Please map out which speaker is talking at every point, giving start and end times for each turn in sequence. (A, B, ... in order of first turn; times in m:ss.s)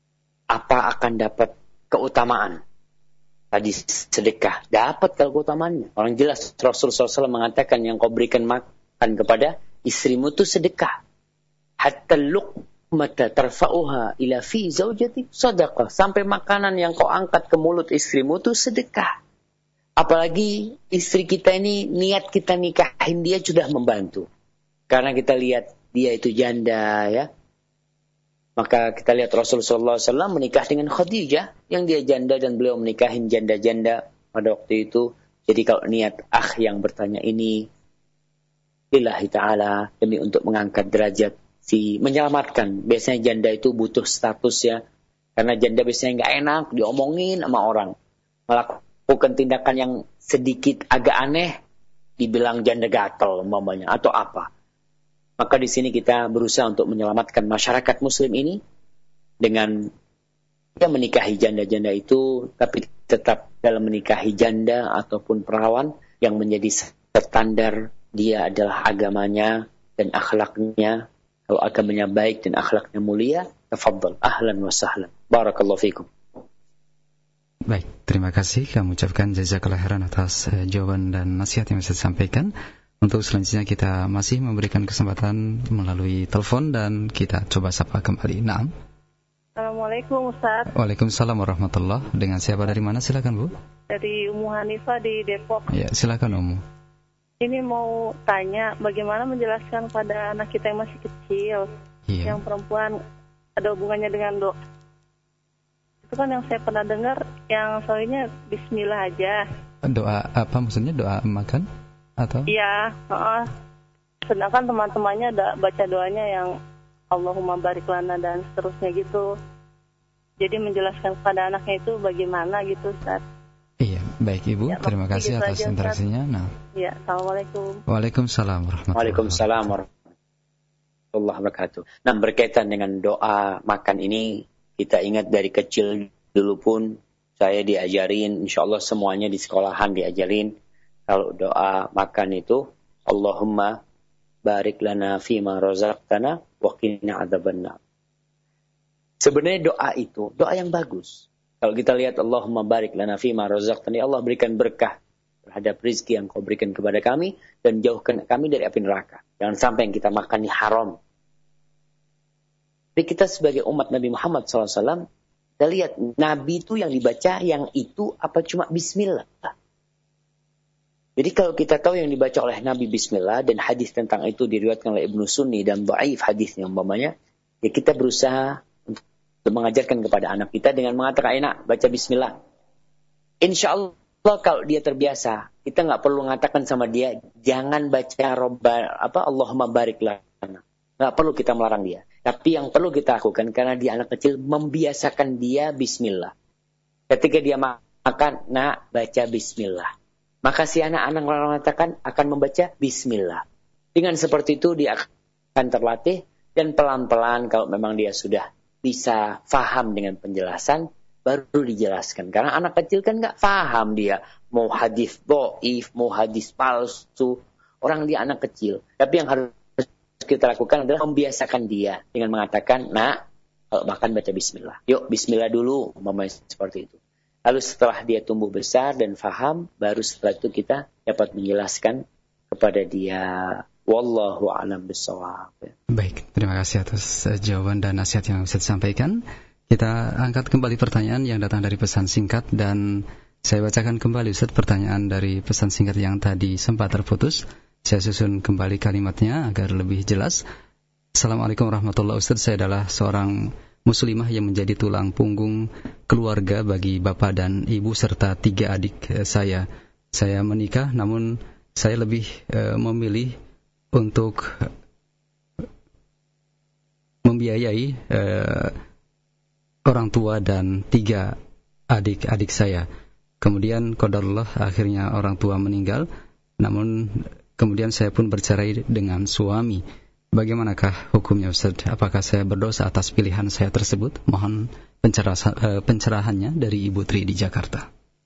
0:00.5-0:02.6 A
0:03.5-0:11.0 A
0:11.8-0:19.1 A
0:20.0-0:24.3 A
0:24.9-0:27.3 A
0:28.6-0:37.7 A
0:38.9-0:44.8 A
0:45.4-0:47.9 A
0:48.5-0:51.6 A
0:52.2-0:54.5 A
0:55.4-0:58.6 A
0:59.4-0:59.9 A
1:00.8-1:16.1 A
1:17.7-1:22.5 B
1:23.0-1:28.7 B
1:29.6-1:30.7 C
1:30.8-1:33.6 B
1:33.9-1:35.7 C
1:35.7-1:36.6 B
1:37.4-1:41.7 C
1:42.1-1:42.4 B
1:42.2-1:42.9 C
1:43.6-1:44.6 C
1:46.1-1:49.4 C
1:49.9-1:51.7 B
1:52.2-1:52.5 B
1:52.5-1:53.5 C
1:54.3-1:56.5 C
1:57.1-1:59.3 C
2:00.4-2:03.2 C
2:03.8-2:06.5 B
2:04.7-2:06.0 C
2:06.8-2:07.8 C
2:07.9-2:09.8 B
2:09.0-2:09.9 A
2:11.1-2:20.5 A
2:21.1-2:23.8 A
2:24.4-2:27.8 A
2:29.2-2:41.0 A
2:43.0-2:45.0 A
2:45.6-2:49.5 A
2:51.2-2:57.1 A
2:57.6-3:02.4 A
3:03.4-3:16.3 A
3:17.1-3:19.9 A
3:20.4-3:23.4 A
3:24.0-3:43.2 A
3:43.7-3:47.0 A
3:47.5-3:55.7 A
3:55.9-3:59.2 B
3:59.7-4:10.4 B
4:11.2-4:13.3 B
4:13.9-4:23.4 B
4:24.0-4:24.7 B
4:27.2-4:28.8 B
4:29.9-4:31.4 B
4:31.9-4:32.9 B
4:33.4-4:36.1 B
4:36.6-4:39.8 B
4:40.4-4:47.9 B